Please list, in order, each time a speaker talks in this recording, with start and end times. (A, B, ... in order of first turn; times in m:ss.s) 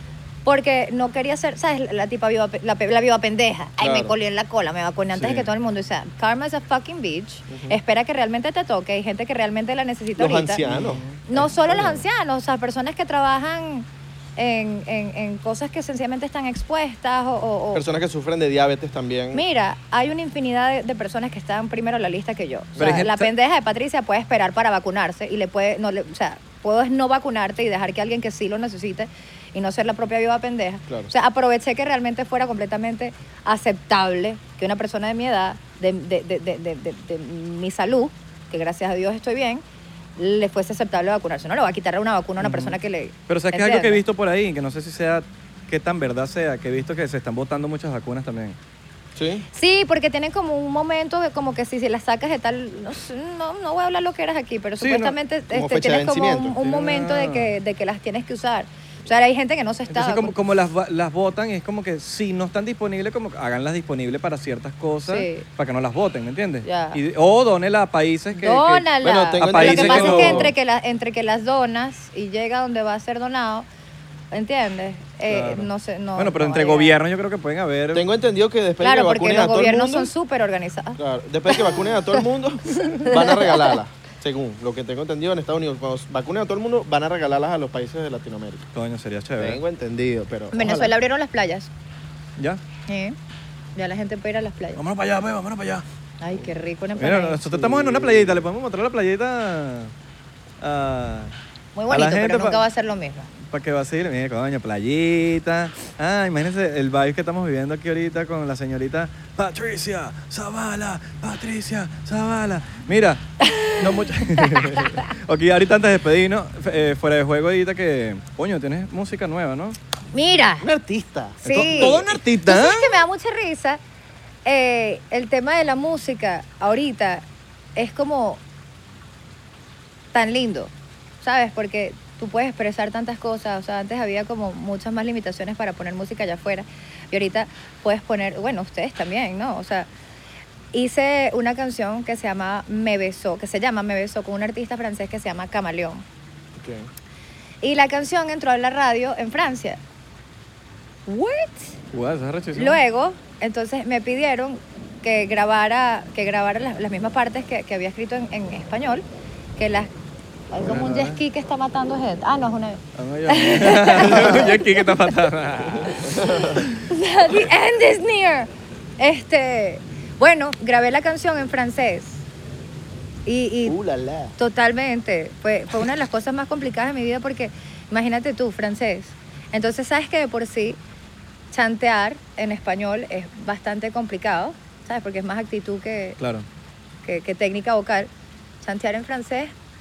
0:00.4-0:10.6 A
0:03.8-0:04.1 B
0:05.1-0:05.5 C
0:07.5-0:07.8 B
0:10.2-0:12.0 B
0:10.6-0:11.2 C
0:11.3-0:18.0 A
0:17.7-0:19.4 B
0:19.3-0:39.6 A
0:22.8-0:23.3 C
0:40.2-0:44.0 A
0:42.4-0:42.7 C
0:43.3-0:48.6 C
0:49.2-0:49.4 B
0:49.5-1:00.3 A
0:54.8-0:55.1 C
0:55.5-0:56.6 B
0:56.6-0:57.5 C
0:59.9-1:08.9 C
1:05.1-1:05.4 A
1:06.6-1:07.0 A
1:08.4-1:13.7 A
1:09.0-1:10.5 B
1:09.4-1:10.5 C
1:14.3-1:16.9 A
1:15.3-1:18.1 C
1:17.9-1:20.1 B
1:18.8-1:22.2 A
1:21.0-1:28.7 B
1:22.7-1:23.7 A
1:28.7-1:29.6 C
1:29.4-1:30.9 B
1:30.5-1:31.7 A
1:32.9-1:33.2 A
1:33.8-1:34.8 A
1:34.7-1:35.8 C
1:36.2-1:37.4 A
1:37.0-1:39.9 C
1:37.4-1:38.5 B
1:40.6-1:41.3 C
1:41.7-1:43.3 A
1:41.9-1:42.6 C
1:43.4-1:59.8 C
1:53.4-1:55.0 A
2:00.1-2:00.7 A
2:00.6-2:02.2 B
2:01.4-2:03.8 A
2:01.4-2:03.0 C
2:04.4-2:07.2 A
2:07.8-2:08.4 A
2:10.1-2:19.9 A
2:20.7-2:26.0 A
2:26.5-2:26.9 B
2:27.6-2:29.8 A
2:31.1-2:31.8 A
2:31.9-2:32.8 C
2:32.5-2:39.0 A
2:39.6-2:39.9 A
2:40.5-2:45.3 A
2:40.6-2:41.2 C
2:42.9-2:46.6 C
2:45.8-2:52.2 A
2:46.2-2:46.6 B
2:53.2-2:53.8 A
2:53.6-2:54.4 B
2:54.4-3:00.8 A
3:01.5-3:06.2 A
3:06.2-3:06.4 C
3:07.0-3:08.1 A
3:08.6-3:09.5 A